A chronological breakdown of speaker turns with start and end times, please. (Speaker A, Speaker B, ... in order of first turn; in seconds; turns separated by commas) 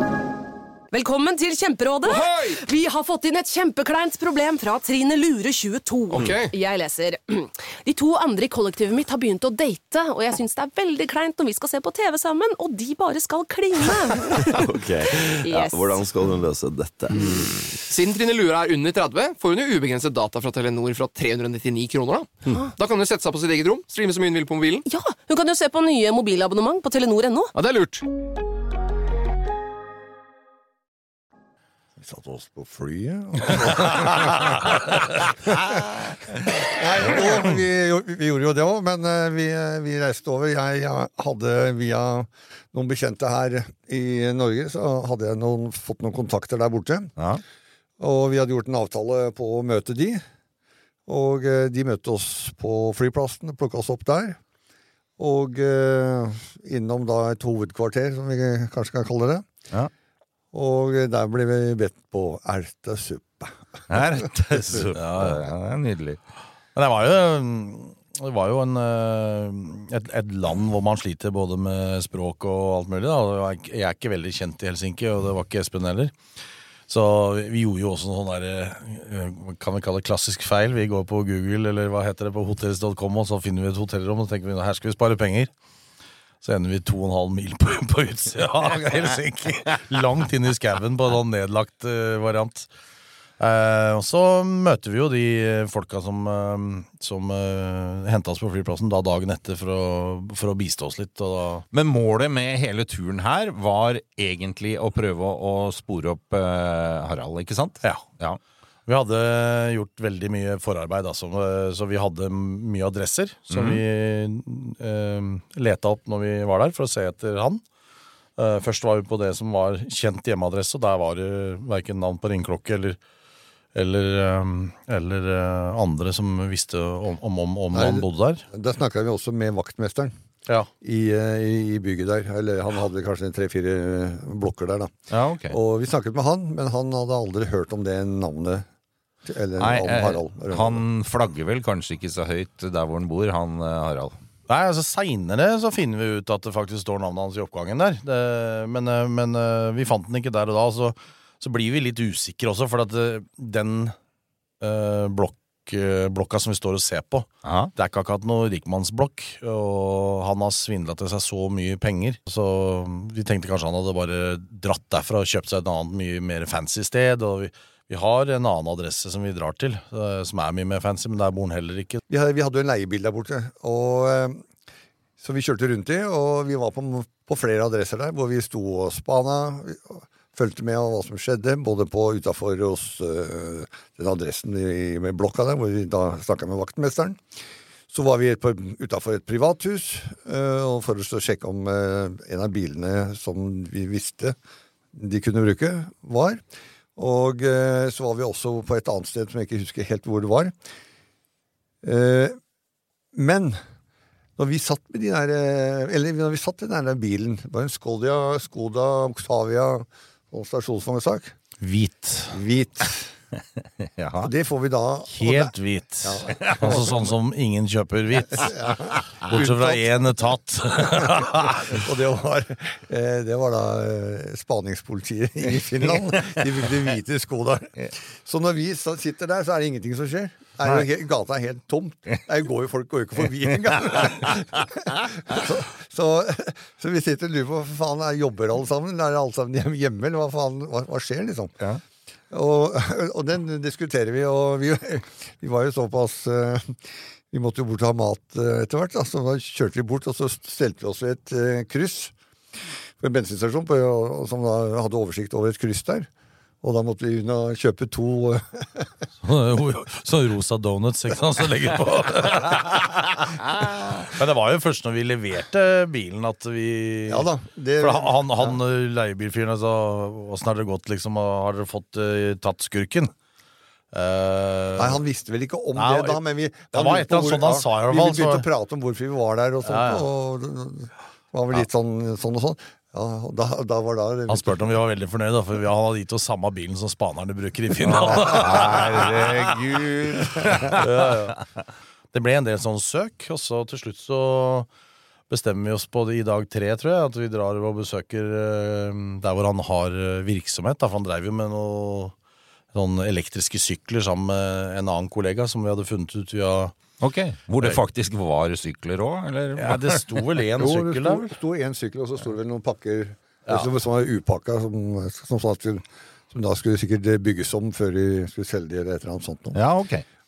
Speaker A: 0.9-16.0, Speaker B: 2.0-2.6, Speaker B: 6.1-6.5, Speaker C: 14.4-17.4, Speaker B: 17.9-24.8, Speaker A: 24.8-27.5, Speaker B: 27.5-28.0, Speaker D: 32.0-47.1, Speaker E: 47.2-47.4, Speaker D: 48.0-50.2, Speaker D: 51.1-54.4, Speaker D: 55.2-59.5, Speaker D: 60.5-64.0, Speaker E: 63.9-66.2, Speaker F: 64.9-65.4, Speaker F: 66.7-76.2, Speaker F: 76.9-85.5, Speaker F: 86.4-92.7, Speaker F: 93.4-101.6, Speaker E: 101.7-108.4, Speaker F: 108.9-117.6, Speaker E: 113.5-113.8, Speaker F: 118.4-123.0, Speaker F: 123.7-128.4, Speaker D: 127.7-130.1, Speaker D: 130.8-134.9, Speaker E: 135.1-135.6, Speaker D: 135.5-138.7, Speaker D: 139.2-140.8, Speaker E: 139.6-144.1, Speaker F: 144.5-153.9, Speaker F: 154.6-172.0, Speaker E: 157.4-157.7, Speaker D: 172.1-174.4, Speaker D: 175.2-187.2, Speaker D: 187.9-194.3, Speaker D: 194.9-196.4, Speaker D: 196.9-200.5, Speaker D: 201.8-202.4, Speaker D: 203.1-203.6, Speaker D: 204.4-211.3, Speaker F: 211.6-212.4, Speaker D: 212.3-213.1, Speaker E: 213.8-214.3, Speaker D: 214.2-217.1, Speaker F: 215.1-218.6, Speaker E: 216.3-216.8, Speaker D: 218.3-219.9, Speaker F: 219.3-221.8, Speaker D: 220.8-241.5, Speaker D: 242.3-246.8, Speaker D: 247.3-252.1, Speaker D: 253.0-256.1, Speaker D: 256.6-258.9, Speaker F: 259.2-267.3, Speaker D: 267.1-268.6, Speaker F: 267.8-273.1, Speaker F: 273.9-275.0, Speaker D: 274.8-284.7, Speaker F: 275.7-276.2, Speaker F: 276.7-278.4, Speaker F: 279.6-280.1, Speaker F: 284.3-291.4, Speaker D: 287.9-288.9, Speaker E: 288.2-289.6, Speaker E: 290.4-290.8, Speaker F: 292.1-294.7, Speaker F: 295.3-302.1, Speaker F: 302.7-306.8, Speaker E: 307.0-310.3, Speaker F: 309.6-311.3, Speaker D: 310.6-319.6, Speaker E: 319.5-320.0